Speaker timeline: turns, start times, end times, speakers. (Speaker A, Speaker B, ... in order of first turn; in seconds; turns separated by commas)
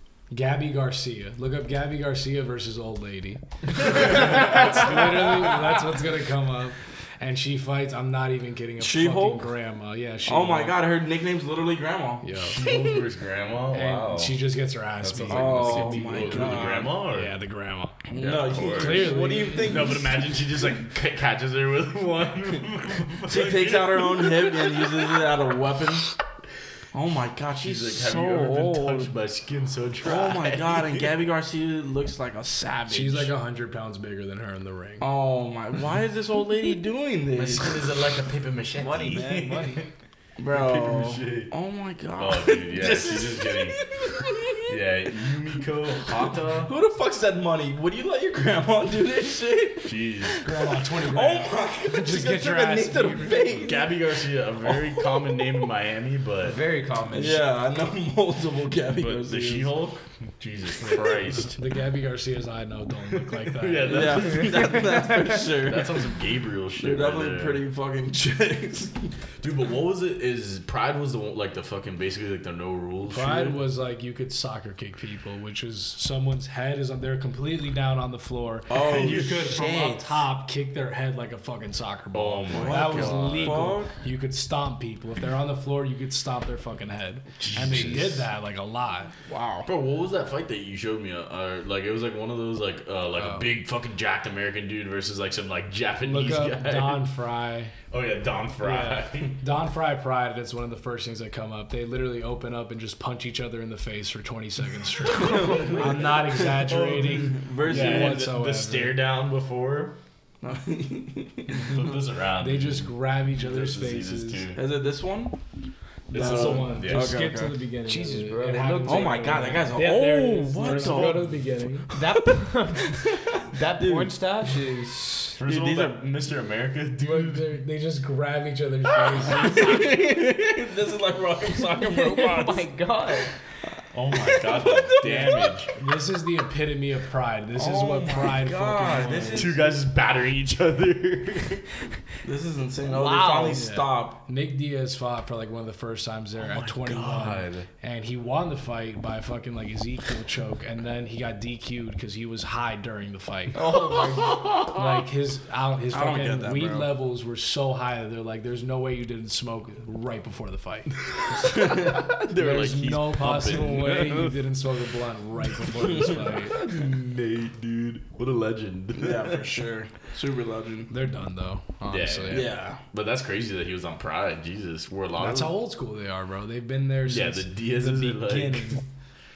Speaker A: 0.3-10.8, Speaker B: 3.9-4.8, Speaker C: 8.8-9.5, Speaker C: 10.2-12.3, Speaker A: 12.2-12.6, Speaker B: 12.3-14.4, Speaker A: 13.7-19.8, Speaker B: 15.0-17.3, Speaker C: 15.3-16.9, Speaker C: 18.1-20.1, Speaker B: 18.1-25.3, Speaker C: 23.3-26.1, Speaker C: 26.9-29.1, Speaker B: 27.5-31.1, Speaker C: 30.0-33.3, Speaker A: 32.9-35.1, Speaker C: 35.0-37.9, Speaker B: 37.3-39.9, Speaker D: 38.8-39.9, Speaker C: 40.4-44.8, Speaker B: 40.5-41.5, Speaker B: 42.1-43.9, Speaker B: 44.6-46.7, Speaker C: 46.5-54.0, Speaker B: 49.8-50.4, Speaker A: 50.4-53.7, Speaker B: 53.6-56.6, Speaker C: 54.6-55.4, Speaker D: 56.4-57.4, Speaker C: 57.1-59.7, Speaker B: 58.9-61.6, Speaker A: 61.5-64.4, Speaker B: 63.1-65.1, Speaker C: 63.9-66.0, Speaker D: 64.3-65.4, Speaker B: 65.6-67.6, Speaker C: 66.8-69.1, Speaker B: 69.4-73.5, Speaker A: 73.1-89.1, Speaker C: 78.7-80.1, Speaker B: 78.9-79.3, Speaker B: 82.1-83.8, Speaker C: 82.5-83.9, Speaker B: 87.4-88.3, Speaker C: 89.2-89.7, Speaker B: 89.7-97.1, Speaker A: 93.2-93.4, Speaker A: 96.0-97.7, Speaker B: 97.9-99.4, Speaker A: 98.6-109.0, Speaker C: 105.1-108.3, Speaker B: 105.2-105.9, Speaker B: 106.7-107.1, Speaker B: 107.6-110.0, Speaker C: 110.4-111.9, Speaker B: 111.5-114.6, Speaker A: 112.4-114.5, Speaker C: 114.5-115.4, Speaker B: 116.1-117.3, Speaker C: 116.1-117.6, Speaker A: 116.1-121.9, Speaker D: 117.8-119.8, Speaker C: 118.8-122.0, Speaker D: 120.6-121.0, Speaker D: 121.9-125.4, Speaker C: 123.0-124.1, Speaker B: 125.3-127.5, Speaker C: 125.4-126.0, Speaker A: 127.0-129.9, Speaker C: 129.3-132.7, Speaker D: 131.7-133.3, Speaker B: 133.9-135.7, Speaker C: 134.1-135.5, Speaker A: 135.0-139.5, Speaker C: 137.5-139.7, Speaker B: 139.3-141.7, Speaker C: 142.2-144.2, Speaker D: 142.9-143.7, Speaker A: 143.4-153.6, Speaker B: 146.4-147.7, Speaker B: 153.6-155.0, Speaker D: 153.6-154.2, Speaker A: 154.7-161.8, Speaker C: 155.9-156.9, Speaker B: 161.1-164.4, Speaker C: 161.4-162.0, Speaker A: 162.3-166.6, Speaker B: 166.2-169.7, Speaker C: 168.9-170.9, Speaker A: 170.9-172.5, Speaker B: 171.8-175.6, Speaker C: 172.3-172.8, Speaker A: 175.2-178.8, Speaker B: 177.1-178.8